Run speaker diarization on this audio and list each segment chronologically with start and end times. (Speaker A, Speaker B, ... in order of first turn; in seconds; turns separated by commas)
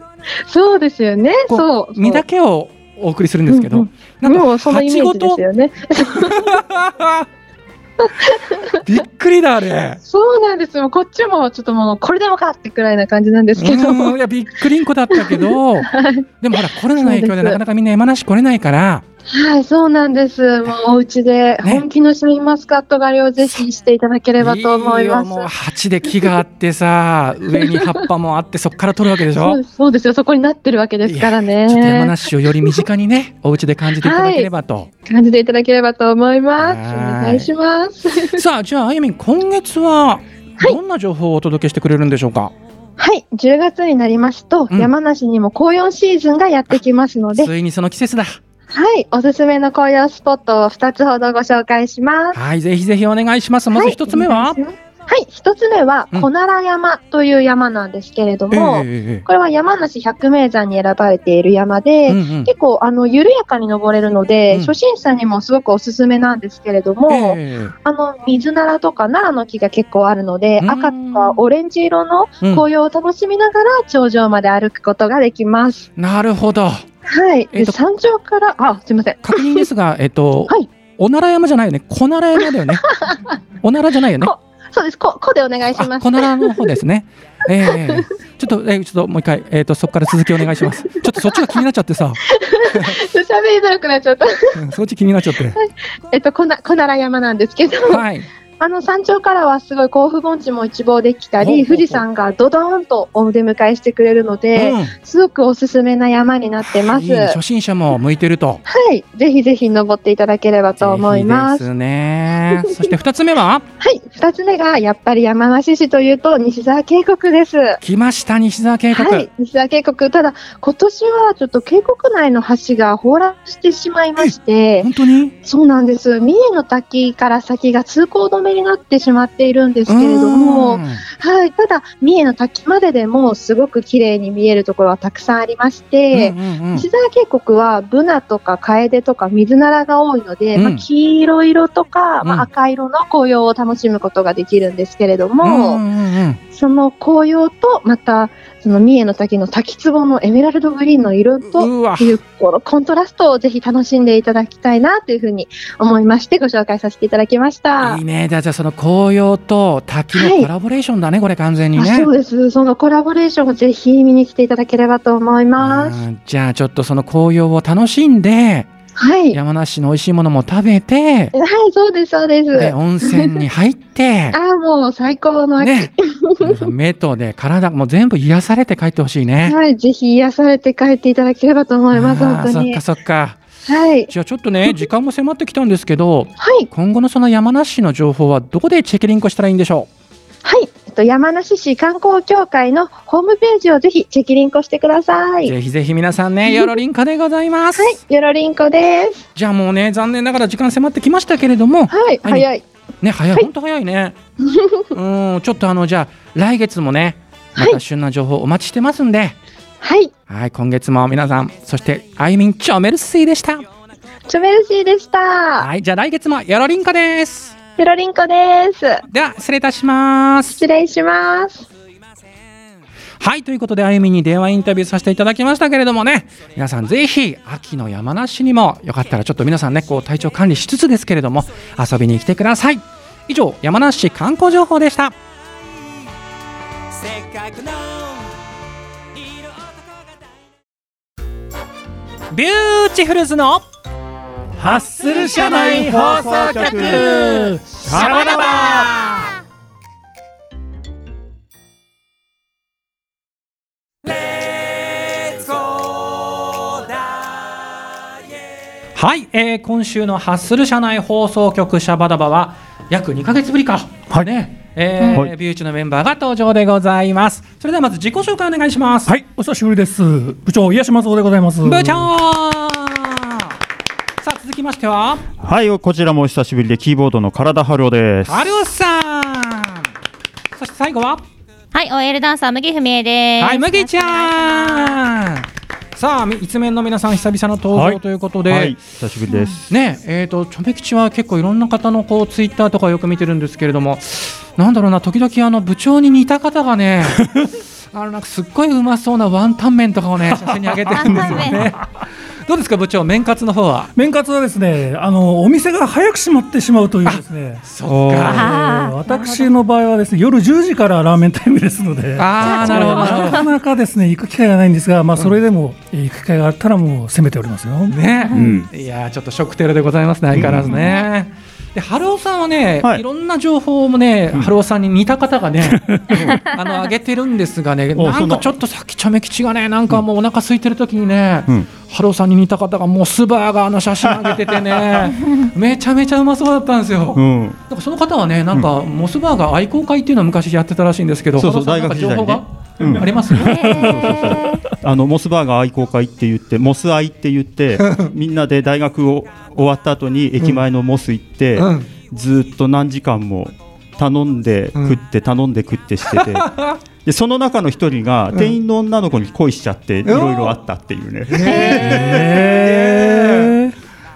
Speaker A: 0.5-2.2, Speaker B: 1.5-5.4, Speaker A: 3.5-6.6, Speaker B: 6.2-7.3, Speaker A: 8.0-8.7, Speaker B: 8.8-10.0, Speaker A: 10.1-14.2, Speaker B: 13.6-15.9, Speaker A: 15.3-17.6, Speaker B: 16.4-19.0, Speaker A: 19.3-25.5, Speaker B: 24.4-29.6, Speaker A: 27.6-27.9, Speaker A: 29.3-32.8, Speaker B: 31.0-34.9, Speaker A: 34.0-34.5, Speaker A: 35.1-38.4, Speaker B: 36.6-37.5, Speaker B: 38.3-42.5, Speaker A: 43.0-47.5, Speaker B: 47.4-48.4, Speaker A: 48.7-52.4, Speaker B: 52.3-54.6, Speaker A: 53.8-75.9, Speaker B: 58.5-59.3, Speaker B: 62.1-62.5, Speaker B: 67.1-67.8, Speaker B: 70.6-71.5, Speaker B: 72.4-72.7, Speaker B: 76.0-76.8, Speaker A: 77.1-79.6, Speaker B: 77.5-77.8, Speaker B: 79.2-82.9, Speaker B: 83.6-84.3, Speaker A: 84.2-86.7, Speaker B: 85.7-93.0, Speaker A: 92.3-94.6, Speaker B: 94.5-95.6, Speaker A: 95.6-98.0, Speaker B: 97.9-98.3, Speaker A: 98.6-107.4, Speaker B: 101.4-102.0, Speaker B: 104.6-105.0, Speaker B: 106.6-108.6, Speaker A: 108.7-111.7, Speaker B: 110.8-113.7, Speaker A: 113.8-117.8, Speaker B: 117.8-119.3, Speaker A: 118.9-124.9, Speaker B: 124.2-125.3, Speaker A: 125.4-145.8, Speaker B: 129.9-131.1, Speaker B: 136.1-136.9, Speaker B: 140.6-140.8, Speaker B: 142.2-142.5, Speaker B: 145.4-146.4, Speaker A: 146.5-158.0, Speaker B: 151.5-152.2, Speaker B: 157.8-162.1, Speaker A: 160.1-160.5, Speaker A: 161.8-166.0, Speaker B: 165.6-168.7, Speaker A: 169.0-169.4, Speaker B: 169.3-171.3, Speaker A: 171.3-173.4, Speaker B: 172.5-174.4, Speaker A: 174.3-176.7, Speaker B: 175.6-179.6, Speaker A: 179.4-182.8, Speaker B: 181.9-183.4, Speaker A: 183.7-184.1, Speaker B: 184.1-189.9, Speaker A: 186.4-186.7, Speaker A: 190.4-195.5, Speaker B: 195.4-198.0, Speaker A: 196.5-196.7, Speaker A: 197.8-199.2, Speaker B: 199.3-202.5, Speaker A: 201.9-202.6, Speaker B: 203.0-204.2, Speaker A: 204.4-204.9, Speaker B: 204.9-209.4, Speaker A: 209.8-210.1, Speaker B: 210.3-213.7, Speaker A: 214.3-215.7, Speaker B: 215.6-217.6, Speaker A: 217.8-219.0, Speaker B: 219.1-220.6, Speaker A: 220.6-221.7, Speaker B: 223.2-235.2, Speaker C: 236.9-238.3, Speaker C: 239.2-240.0, Speaker B: 242.3-243.7, Speaker D: 244.6-247.8, Speaker E: 245.0-247.2, Speaker B: 246.4-249.3, Speaker E: 247.8-249.1, Speaker C: 254.1-257.5, Speaker B: 259.0-269.1, Speaker D: 269.1-272.1, Speaker B: 271.6-273.5, Speaker B: 274.2-275.2, Speaker E: 275.4-278.4, Speaker B: 278.3-279.9, Speaker B: 280.6-281.2, Speaker F: 281.7-285.0, Speaker B: 283.4-288.8, Speaker E: 288.5-289.6, Speaker F: 289.3-289.6, Speaker B: 289.7-297.3, Speaker B: 297.9-301.9, Speaker D: 300.3-301.5, Speaker F: 300.9-301.7, Speaker E: 301.1-301.4, Speaker B: 302.4-303.9, Speaker D: 303.9-318.0, Speaker B: 307.1-308.6, Speaker F: 308.2-309.5, Speaker B: 312.2-313.5, Speaker F: 312.4-313.5, Speaker B: 317.9-343.8, Speaker F: 318.3-318.6, Speaker E: 318.3-318.7, Speaker E: 320.3-320.8, Speaker F: 320.7-321.1, Speaker D: 325.8-326.2, Speaker E: 326.1-326.4, Speaker E: 327.9-328.6, Speaker E: 334.1-334.8, Speaker E: 337.1-337.6, Speaker E: 341.4-362.4, Speaker D: 342.9-343.9, Speaker F: 343.4-344.7, Speaker B: 347.8-348.1, Speaker B: 351.6-351.9, Speaker B: 356.1-356.8, Speaker B: 360.0-360.6, Speaker B: 361.3-363.5, Speaker F: 361.4-362.3, Speaker D: 361.8-363.7